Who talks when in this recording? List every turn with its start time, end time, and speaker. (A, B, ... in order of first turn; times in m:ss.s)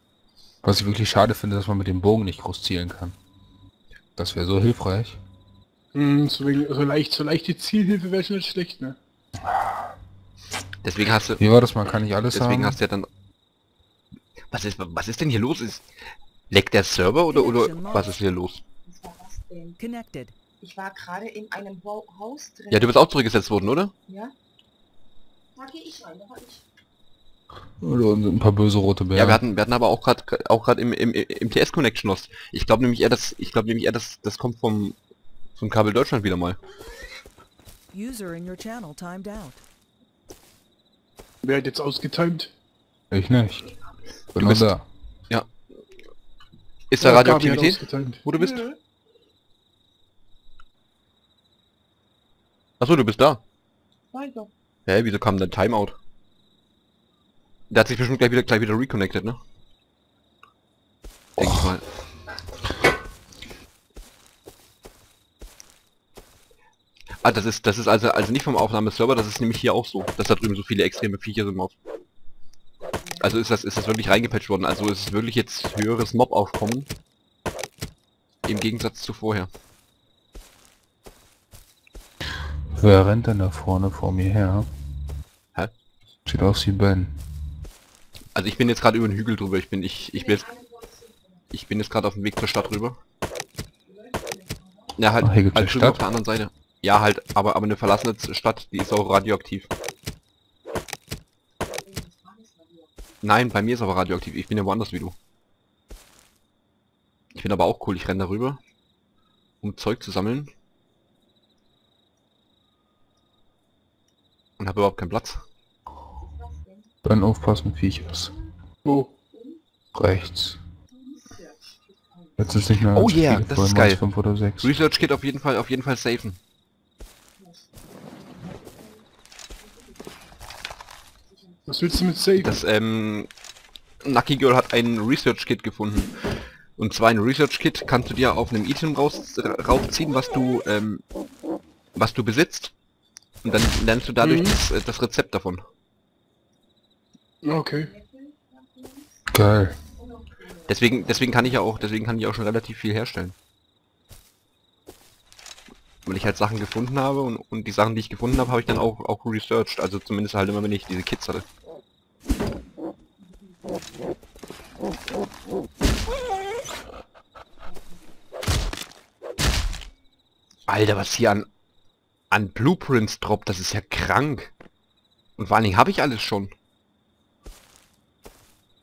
0:00.6-0:03.2 A
0:04.2-0:05.2 A
0:05.9-0:09.0 B
0:09.4-0:09.9 A
0:10.8-0:11.4 C
0:11.4-0:12.8 A
0:12.3-0:13.1 C
0:14.5-0:15.9 C
0:16.5-0:18.6 C
0:17.3-0:18.2 D
0:18.8-0:19.8 E
0:19.8-0:20.4 D
0:20.6-0:22.9 E
0:22.7-0:23.9 C
0:24.1-0:24.3 E
0:25.6-0:26.6 E
0:27.8-0:29.4 A
0:29.1-0:35.0 C
0:35.6-0:36.6 C
0:37.9-0:39.6 D
0:41.4-0:42.5 B
0:43.1-0:43.7 A
0:44.4-0:44.9 A
0:44.4-0:44.7 C
0:46.9-0:48.7 C
0:47.0-0:48.2 B
0:48.4-0:48.8 E
0:52.8-0:53.4 C
0:54.1-0:54.5 E
0:54.9-0:56.0 C
0:57.7-0:59.4 C
1:01.4-1:01.8 C
1:07.2-1:11.8 C
1:12.8-1:13.4 E
1:13.2-1:16.9 C
1:18.4-1:19.5 C
1:22.7-1:24.7 A
1:26.3-1:27.2 A
1:28.4-1:30.5 C
1:30.1-1:31.5 E
1:31.5-1:33.0 C
1:33.8-1:35.2 E
1:35.0-1:39.7 C
1:35.2-1:36.0 A
1:41.7-1:43.4 E
1:43.2-1:45.2 C
1:47.3-1:48.6 C
1:49.6-1:50.5 C
1:54.6-1:55.4 C
1:56.2-1:56.9 E
1:57.0-1:58.3 A
1:58.8-1:59.1 B
1:59.3-1:59.6 E
2:00.0-2:00.6 A
2:00.9-2:02.7 E
2:02.4-2:04.7 A
2:02.9-2:04.0 C
2:04.6-2:06.4 C
2:07.4-2:10.4 E
2:11.3-2:12.2 E
2:11.7-2:12.6 B
2:12.4-2:13.3 C
2:14.0-2:16.1 C
2:16.8-2:21.0 C
2:22.0-2:22.7 C
2:23.4-2:25.6 C
2:24.2-2:24.6 B
2:27.4-2:27.9 B
2:27.7-2:29.3 E
2:29.3-2:29.8 A
2:30.0-2:31.5 E
2:30.7-2:33.4 C
2:36.1-2:41.5 C
2:43.2-2:43.8 E
2:47.7-2:48.1 E
2:50.7-2:51.5 C
2:52.3-2:54.5 C
2:55.4-2:56.5 C